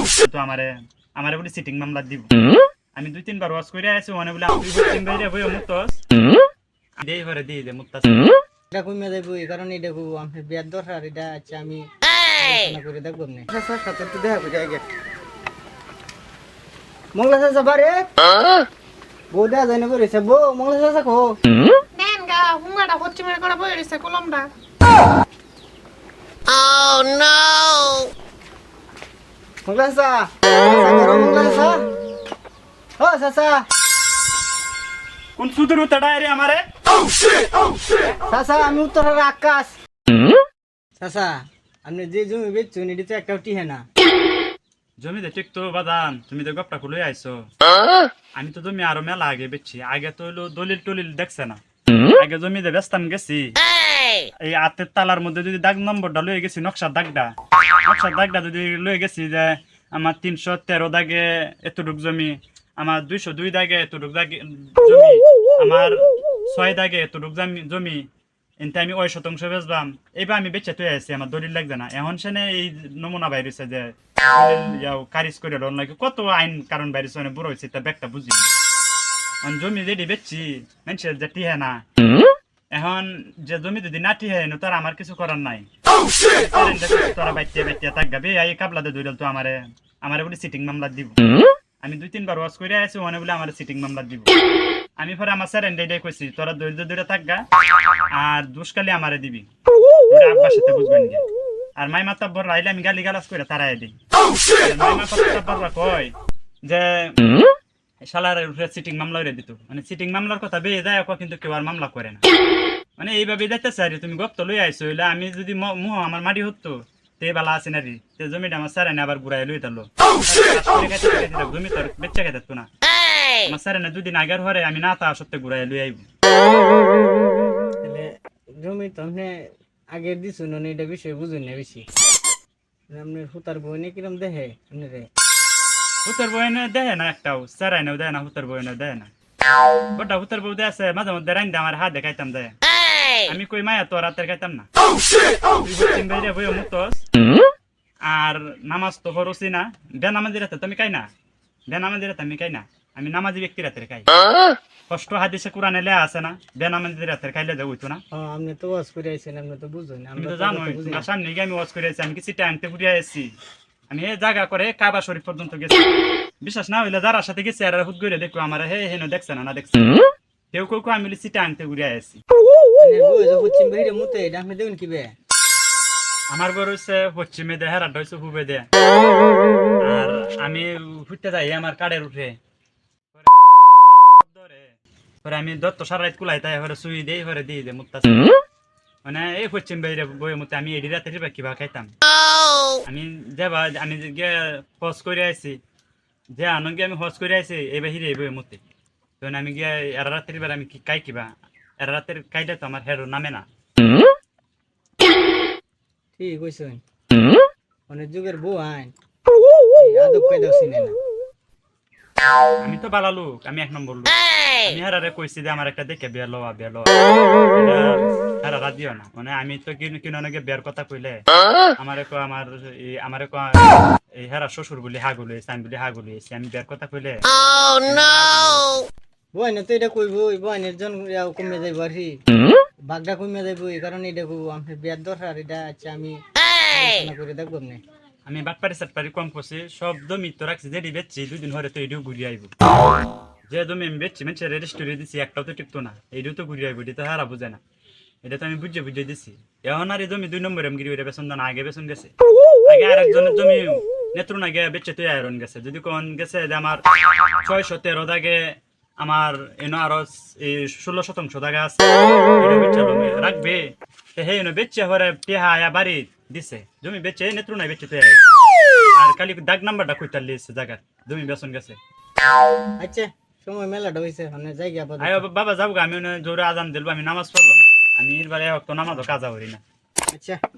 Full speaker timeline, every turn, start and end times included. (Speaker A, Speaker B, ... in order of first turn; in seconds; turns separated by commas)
Speaker A: 0.2-2.3, Speaker A: 2.9-6.0, Speaker A: 7.0-8.3, Speaker B: 8.7-11.8, Speaker B: 12.3-14.8, Speaker B: 17.1-18.1, Speaker B: 19.3-21.4, Speaker C: 22.1-24.5, Speaker C: 26.5-28.0, Speaker B: 29.6-31.9, Speaker B: 33.0-33.7, Speaker A: 35.4-36.6, Speaker B: 38.3-39.8, Speaker B: 41.0-43.8, Speaker A: 45.0-47.3, Speaker A: 48.4-51.6, Speaker A: 52.1-53.5, Speaker A: 54.5-57.3, Speaker A: 57.9-68.0, Speaker A: 68.6-78.5, Speaker A: 79.4-81.8, Speaker A: 82.7-85.6, Speaker A: 86.3-91.2, Speaker A: 91.8-94.3, Speaker A: 95.0-97.4, Speaker A: 98.1-99.5, Speaker A: 100.1-101.2, Speaker A: 101.8-103.9, Speaker A: 104.6-106.1, Speaker A: 106.7-107.2, Speaker A: 108.1-112.2, Speaker A: 113.0-122.7, Speaker A: 123.4-126.0, Speaker B: 127.8-128.1, Speaker B: 128.6-129.3, Speaker B: 129.9-131.8, Speaker B: 132.9-135.1, Speaker A: 136.1-139.1, Speaker A: 139.9-142.5, Speaker A: 143.2-144.7, Speaker A: 145.6-147.0, Speaker A: 148.1-151.1, Speaker A: 151.7-154.1, Speaker A: 154.9-158.0, Speaker B: 158.1-161.1, Speaker A: 160.2-163.3, Speaker A: 163.9-165.8, Speaker A: 166.4-169.9, Speaker A: 170.5-172.2, Speaker B: 172.8-175.1, Speaker A: 176.3-178.7, Speaker A: 179.8-182.3, Speaker A: 183.1-188.3, Speaker A: 189.0-191.9, Speaker A: 192.9-195.6, Speaker A: 196.4-198.6, Speaker A: 199.2-201.3, Speaker A: 201.8-203.4, Speaker B: 206.2-206.8, Speaker B: 207.9-208.9, Speaker B: 209.8-211.0, Speaker A: 212.6-216.9, Speaker A: 217.6-221.2, Speaker A: 221.8-228.8, Speaker B: 229.3-232.2, Speaker B: 232.9-237.8, Speaker A: 238.2-242.5, Speaker A: 243.5-247.6, Speaker A: 248.2-252.1, Speaker A: 252.7-256.8, Speaker A: 257.4-261.8, Speaker A: 262.4-268.4, Speaker A: 269.0-271.8, Speaker B: 272.8-275.2, Speaker A: 275.0-279.6, Speaker B: 280.1-280.4